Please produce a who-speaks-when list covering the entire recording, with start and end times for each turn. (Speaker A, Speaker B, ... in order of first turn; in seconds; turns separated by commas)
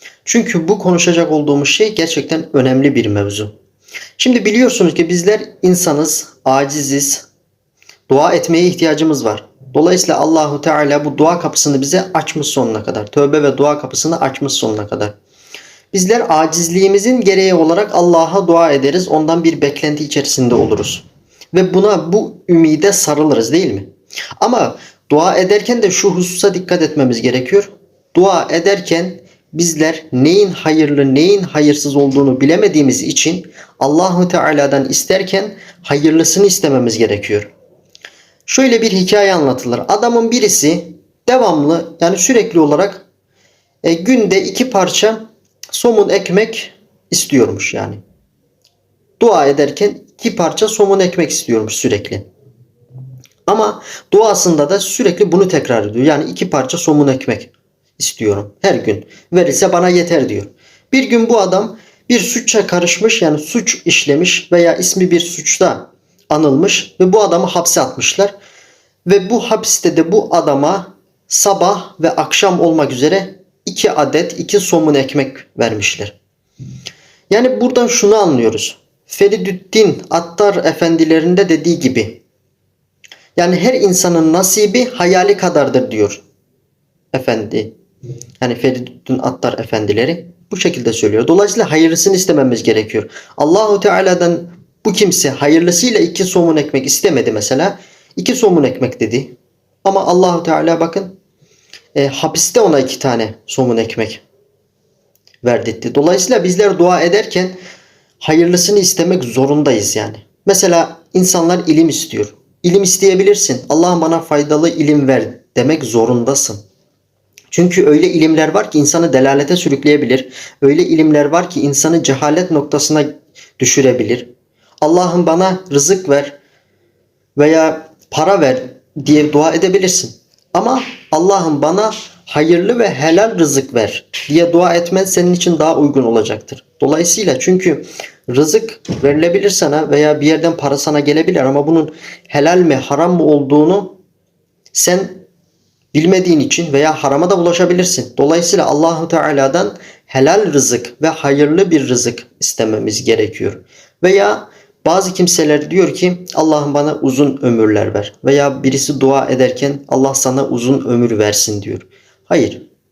Speaker A: 0.2-3.5, Speaker A: 4.2-7.3, Speaker A: 8.1-15.1, Speaker A: 15.9-23.9, Speaker A: 24.4-37.5, Speaker A: 38.5-43.0, Speaker A: 43.8-48.0, Speaker A: 49.2-52.2, Speaker A: 53.5-68.3, Speaker A: 69.1-76.2, Speaker A: 77.3-82.2, Speaker A: 83.4-86.2, Speaker A: 87.1-87.7, Speaker A: 88.4-101.2, Speaker A: 102.0-104.2, Speaker A: 105.4-107.6, Speaker A: 108.2-116.6, Speaker A: 117.5-124.3, Speaker A: 124.8-126.4, Speaker A: 127.4-144.0, Speaker A: 144.7-145.3, Speaker A: 145.9-162.7